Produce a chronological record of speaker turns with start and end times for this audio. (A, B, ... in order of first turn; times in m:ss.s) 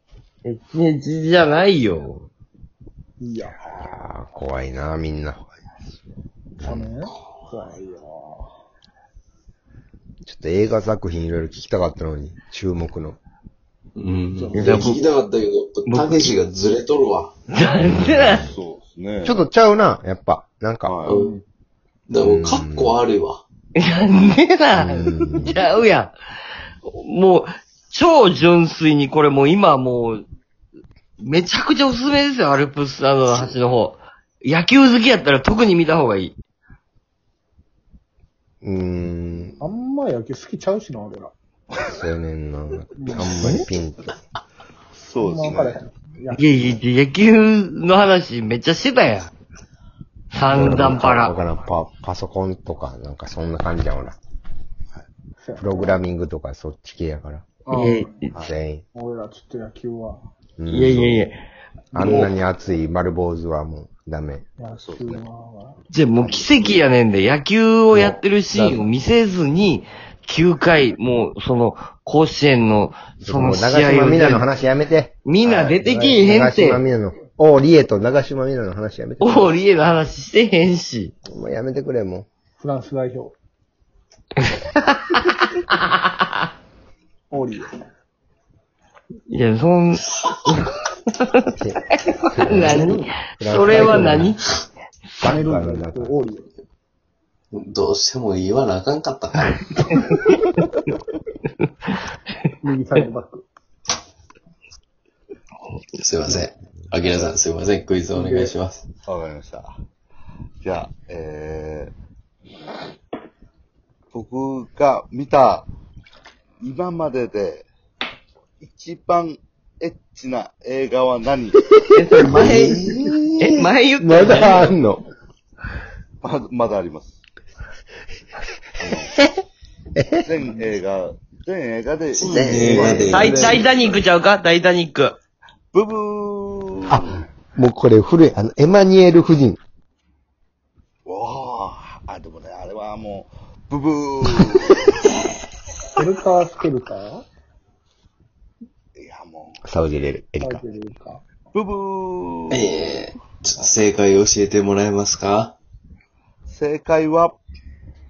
0:00.4-0:02.2 A
0:03.2-0:03.6 B
0:03.7-0:05.4 C
0:05.4-0:06.0 D
0:06.6-0:06.9 C
0:06.6-0:08.5 B
0:10.2-0:13.2 C
0:14.0-0:17.3 E
0:14.3-0:14.7 B
0:14.5-0:15.0 A
0:15.9-0:16.3 A
0:17.5-0:18.4 A
0:17.8-0:18.4 C
0:18.0-0:18.5 E
0:18.4-0:19.4 D
0:19.2-0:21.0 C
0:20.8-0:21.1 D
0:21.0-0:21.4 E
0:22.1-0:23.4 E
0:22.2-0:23.0 C
0:23.8-0:26.1 A
0:24.7-0:25.6 C
0:26.8-0:30.2 A
0:31.2-0:36.4 A
0:38.6-0:39.6 C
0:39.6-0:41.3 B
0:41.7-0:42.0 D
0:41.8-0:44.1 C
0:43.0-0:43.3 B
0:44.9-0:45.8 D
0:45.2-0:46.6 B
0:46.3-0:49.3 A
0:50.3-0:51.4 A
0:50.4-0:54.2 C
0:55.4-0:56.0 B
0:55.6-0:57.4 C
0:57.6-0:58.1 B
0:57.7-0:58.3 A
0:58.4-0:58.8 C
0:58.9-1:00.2 B
1:00.6-1:01.3 C
1:00.7-1:01.4 A
1:01.9-1:04.5 C
1:02.0-1:02.3 A
1:04.6-1:05.8 B
1:04.8-1:05.2 D
1:05.9-1:14.5 A
1:06.2-1:06.5 C
1:07.9-1:08.9 C
1:13.2-1:15.2 C
1:15.2-1:16.8 A
1:15.4-1:15.8 D
1:15.8-1:19.6 C
1:19.2-1:21.1 A
1:21.3-1:22.3 C
1:22.6-1:23.3 B
1:24.6-1:26.0 A
1:27.3-1:27.7 B
1:29.3-1:34.5 A
1:31.6-1:34.3 C
1:33.8-1:34.1 B
1:35.2-1:36.1 C
1:35.3-1:36.5 B
1:37.5-1:39.8 E
1:39.7-1:40.6 A
1:42.6-1:43.4 B
1:46.0-1:48.8 E
1:49.0-1:49.7 D
1:50.6-1:51.9 D
1:54.1-1:55.7 D
1:56.6-1:57.7 D
1:58.6-2:01.6 D
2:01.9-2:02.8 A
2:02.2-2:05.0 C
2:02.3-2:03.1 E
2:03.4-2:04.7 A
2:06.2-2:07.2 D
2:08.8-2:09.1 D
2:08.8-2:09.3 C
2:09.9-2:10.3 C
2:10.2-2:14.0 D
2:12.1-2:13.6 E
2:12.2-2:13.1 C
2:13.0-2:15.2 A
2:15.7-2:17.2 D
2:16.9-2:19.6 C
2:21.0-2:25.0 D
2:26.0-2:27.2 B
2:29.0-2:29.6 D
2:29.6-2:30.6 C
2:30.4-2:31.2 B
2:31.5-2:32.6 D
2:32.5-2:35.5 E
2:36.5-2:37.4 D